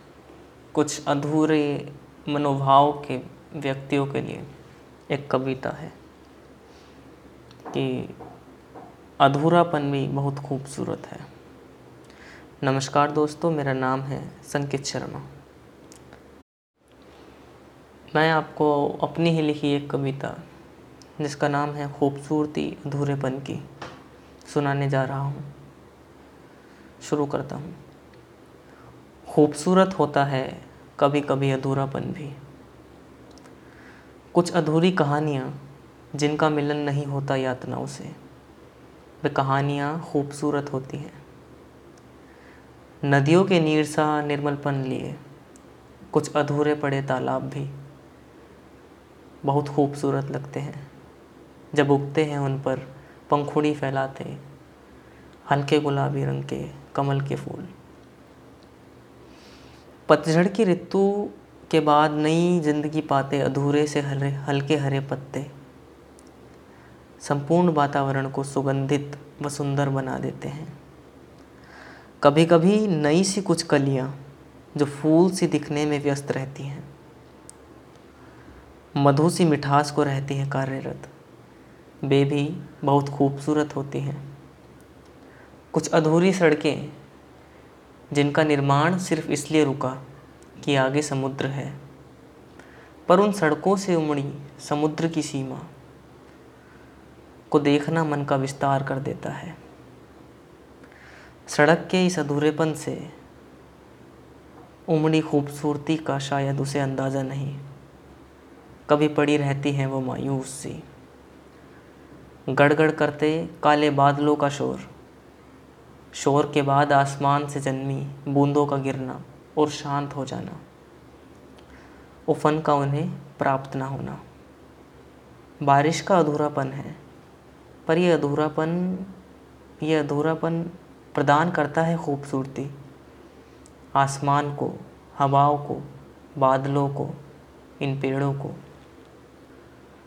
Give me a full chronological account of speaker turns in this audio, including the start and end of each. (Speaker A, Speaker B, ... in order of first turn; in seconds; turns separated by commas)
Speaker A: 0.7-4.5, Speaker A: 5.1-5.9, Speaker A: 7.7-8.2, Speaker A: 9.2-11.3, Speaker A: 12.6-15.2, Speaker A: 18.1-20.4, Speaker A: 21.2-23.6, Speaker A: 24.4-25.5, Speaker A: 27.0-27.8, Speaker A: 29.3-32.4, Speaker A: 34.3-35.5, Speaker A: 36.1-38.1, Speaker A: 39.2-41.2, Speaker A: 43.0-45.2, Speaker A: 46.1-47.7, Speaker A: 49.4-50.9, Speaker A: 51.7-54.4, Speaker A: 55.5-57.7, Speaker A: 60.1-65.5, Speaker A: 67.2-70.7, Speaker A: 72.2-74.2, Speaker A: 74.7-76.9, Speaker A: 79.0-81.1, Speaker A: 82.0-84.2, Speaker A: 85.7-86.9, Speaker A: 88.1-90.0, Speaker A: 90.6-91.8, Speaker A: 93.1-95.7, Speaker A: 97.5-99.6, Speaker A: 101.5-103.1, Speaker A: 104.9-107.6, Speaker A: 108.9-110.8, Speaker A: 112.5-114.9, Speaker A: 116.1-120.6, Speaker A: 122.3-124.2, Speaker A: 125.6-127.0, Speaker A: 127.9-129.1, Speaker A: 129.8-132.8, Speaker A: 133.9-137.2, Speaker A: 137.8-138.6